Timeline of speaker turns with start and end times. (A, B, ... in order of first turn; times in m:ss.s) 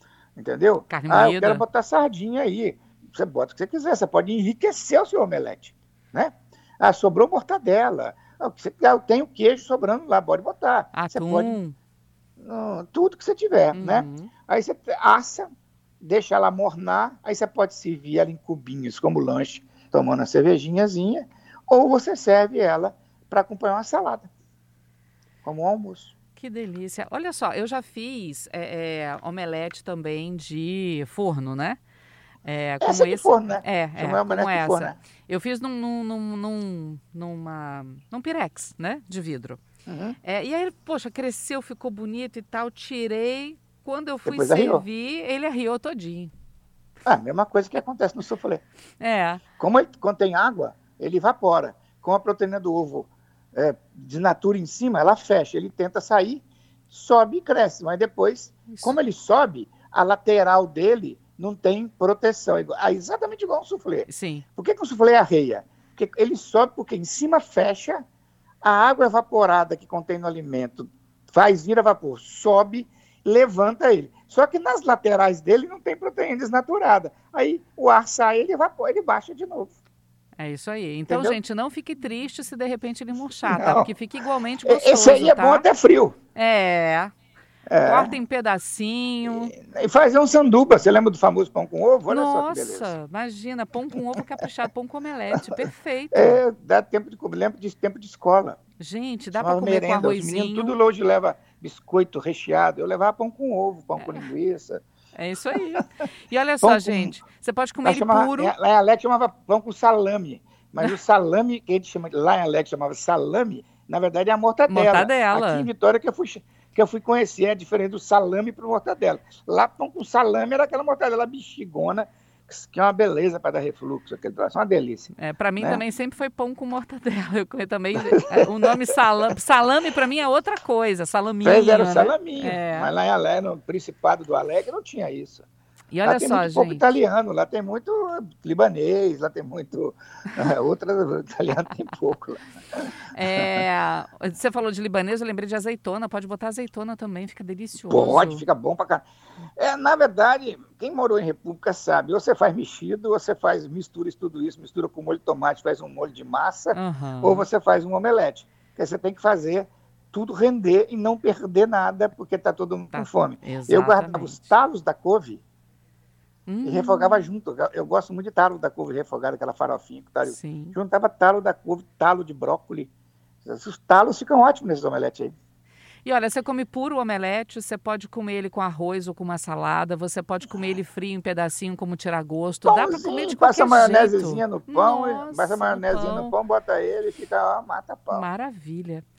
0:00.4-0:11.6 A
0:00.9-0:01.6 B
0:10.9-0:11.8 B
0:12.4-0:15.5 A
0:13.7-0:14.3 B
0:16.0-0:24.3 A
0:25.4-0:26.1 A
0:26.4-0:31.8 B
0:32.4-0:39.6 B
0:32.8-0:35.0 A
0:39.9-0:40.2 A
0:40.2-0:46.3 B
0:44.2-0:44.8 A
0:47.1-0:48.6 A
0:49.0-0:49.4 B
0:49.6-1:08.0 A
0:58.7-0:59.0 B
1:04.1-1:04.4 B
1:08.6-1:19.7 A
1:20.4-1:25.7 B
1:21.1-1:21.4 A
1:23.4-1:23.9 A
1:24.6-1:26.2 A
1:26.4-1:27.1 B
1:27.7-1:28.2 A
1:27.8-1:29.5 B
1:29.2-1:32.9 A
1:32.1-1:36.4 B
1:36.1-1:38.6 A
1:38.8-1:40.8 B
1:39.4-1:44.8 A
1:44.0-1:44.3 B
1:45.2-1:48.6 B
1:45.5-1:45.8 A
1:46.6-1:47.2 A
1:47.8-2:05.8 A
1:54.7-1:55.7 B
2:05.2-2:12.9 B
2:08.1-2:08.8 A
2:11.4-2:15.4 A
2:15.9-2:16.9 B
2:16.0-2:23.5 A
2:23.1-2:28.5 B
2:27.8-2:29.0 A
2:29.6-2:45.4 A
2:36.7-2:37.5 B
2:42.9-2:44.5 B
2:46.5-2:47.3 B
2:46.6-2:52.9 A
2:50.2-2:50.8 B
2:53.4-2:55.3 A
2:56.0-3:06.4 B
3:02.6-3:08.3 A
3:08.1-3:09.1 B